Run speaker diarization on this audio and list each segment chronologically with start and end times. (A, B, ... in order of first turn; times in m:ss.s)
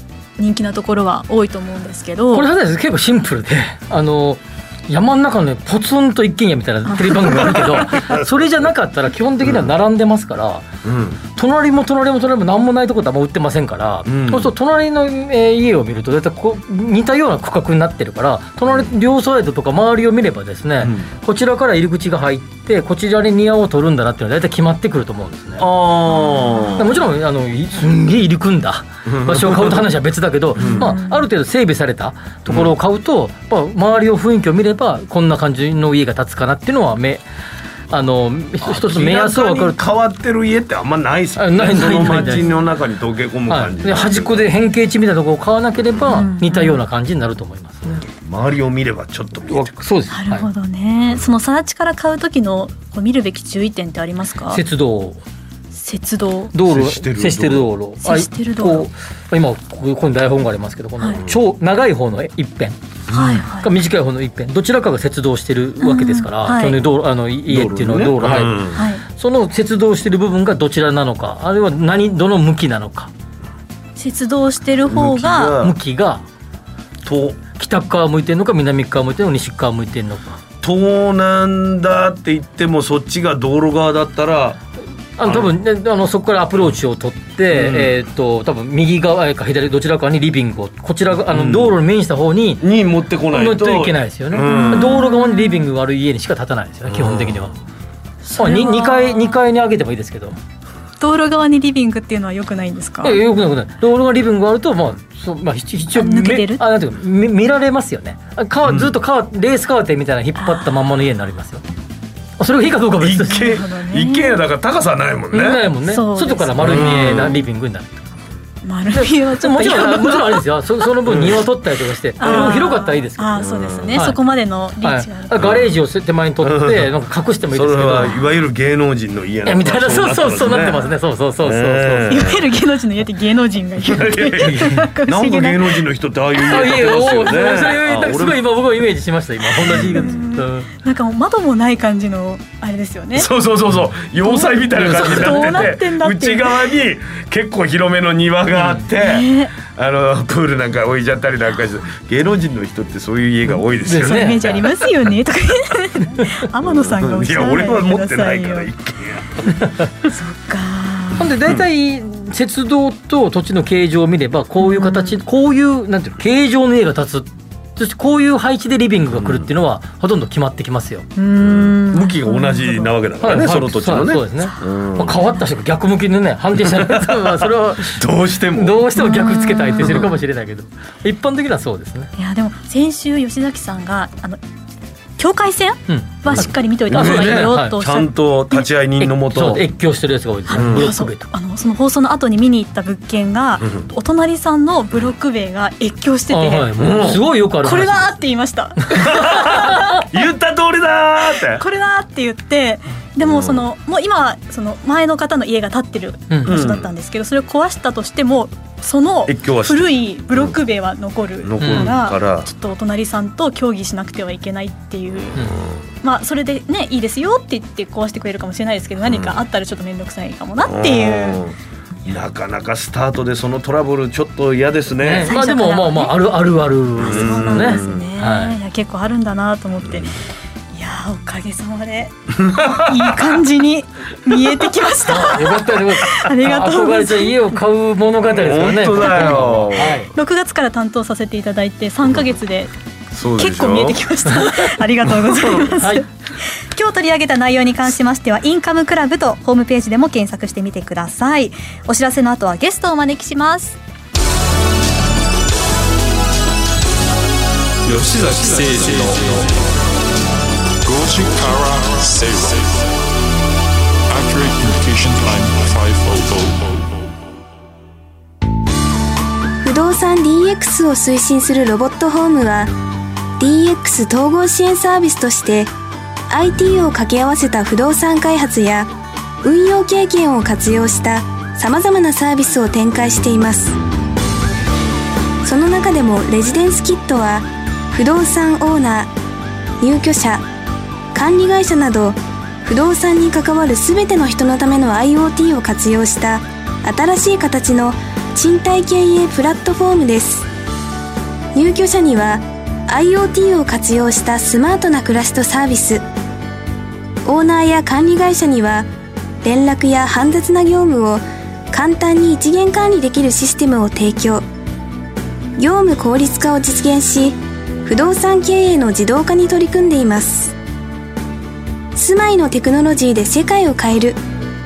0:00.4-0:02.5 A
0:02.3-0:10.6 B
0:07.0-0:07.7 A
0:09.4-0:09.7 C
0:10.8-0:11.2 C
0:11.4-0:25.7 B
0:14.1-0:14.5 C
0:20.8-0:21.1 C
0:25.6-0:27.0 C
0:26.1-0:26.9 A
0:26.8-0:37.2 B
0:29.1-0:29.8 C
0:30.6-0:30.9 C
0:30.6-0:31.3 A
0:32.5-0:32.7 C
0:37.9-0:39.8 B
0:38.6-0:44.5 C
0:41.4-0:42.5 B
0:43.5-0:48.1 B
0:46.0-0:46.8 A
0:48.1-0:49.7 C
0:49.5-0:50.5 B
0:50.1-0:54.6 A
0:54.5-0:55.2 B
0:55.7-0:56.5 A
0:56.5-1:02.8 B
0:56.6-0:57.7 C
0:58.0-0:58.9 A
1:03.1-1:03.7 A
1:03.6-1:13.1 B
1:05.8-1:06.8 A
1:07.5-1:08.8 C
1:08.8-1:09.0 A
1:14.0-1:15.6 A
1:14.9-1:15.7 C
1:15.6-1:16.2 B
1:17.0-1:17.4 C
1:17.6-1:20.4 B
1:20.6-1:24.6 C
1:25.2-1:32.6 B
1:25.2-1:25.5 C
1:27.5-1:28.0 C
1:31.3-1:31.8 C
1:32.6-1:35.0 C
1:33.3-1:37.5 B
1:34.4-1:35.6 A
1:36.9-1:37.4 C
1:38.3-1:39.4 A
1:38.4-1:40.3 B
1:41.0-1:43.2 A
1:43.0-1:51.6 B
1:45.9-1:46.6 A
1:48.6-1:48.9 C
1:50.4-1:50.8 A
1:52.4-1:53.5 B
1:53.0-1:55.7 C
1:53.2-1:54.4 A
1:55.3-1:58.0 B
1:55.8-1:57.4 A
1:56.6-1:57.4 C
1:58.6-2:00.4 A
1:58.9-2:03.4 B
2:01.1-2:01.4 C
2:02.2-2:05.4 A
2:02.2-2:02.6 C
2:03.4-2:04.0 C
2:03.9-2:04.2 B
2:04.8-2:08.2 B
2:05.4-2:05.7 C
2:06.4-2:07.0 C
2:07.5-2:10.9 C
2:09.4-2:12.3 B
2:11.4-2:12.4 C
2:12.1-2:15.8 A
2:13.8-2:18.4 C
2:14.4-2:14.9 B
2:16.3-2:17.5 A
2:16.4-2:20.7 B
2:19.6-2:23.3 A
2:19.6-2:20.1 C
2:23.2-2:34.6 C
2:24.2-2:26.8 A
2:24.8-2:25.8 B
2:28.6-2:28.8 B
2:28.9-2:29.6 A
2:33.8-2:34.6 B
2:34.0-2:38.7 A
2:36.7-2:39.4 C
2:40.0-2:41.3 A
2:41.2-2:51.1 B
2:44.6-2:45.1 A
2:49.1-2:49.5 C
2:51.2-2:52.9 A
2:51.4-2:55.2 C
2:53.2-3:02.1 B
2:55.1-2:55.4 A
2:56.6-2:58.9 C
2:59.0-3:00.1 A
2:59.8-3:00.1 C
3:02.2-3:04.4 A
3:05.2-3:08.7 A
3:05.9-3:07.8 B
3:06.3-3:09.7 C
3:09.0-3:11.3 B
3:10.5-3:10.9 C
3:10.5-3:20.1 A
3:16.3-3:18.2 B
3:16.8-3:17.2 C
3:19.0-3:21.6 C
3:21.4-3:41.4 A
3:23.2-3:23.6 C
3:26.3-3:26.6 B
3:26.5-3:26.9 C
3:29.3-3:30.5 C
3:31.4-3:32.5 C
3:31.6-3:31.9 B
3:39.0-3:39.4 C
3:40.6-3:45.3 C
3:45.0-3:48.6 B
3:45.2-3:46.2 A
3:47.0-3:48.1 C
3:47.0-3:57.6 A
3:55.2-4:00.1 B
3:58.3-4:00.0 C
3:59.0-4:02.7 A
4:03.1-4:04.0 C
4:03.3-4:13.8 A
4:05.5-4:06.0 B
4:17.8-4:19.5 D
4:20.8-4:22.9 D
4:24.1-4:26.8 D
4:29.6-4:32.7 E
4:33.4-4:35.7 E
4:36.3-4:38.9 E
4:39.4-4:43.8 E
4:45.4-4:49.1 E
4:49.8-4:50.4 E
4:51.1-5:00.5 E
5:01.5-5:06.0 E
5:07.2-5:08.9 E
5:09.4-5:14.4 E
5:15.6-5:20.5 E
5:22.0-5:24.2 E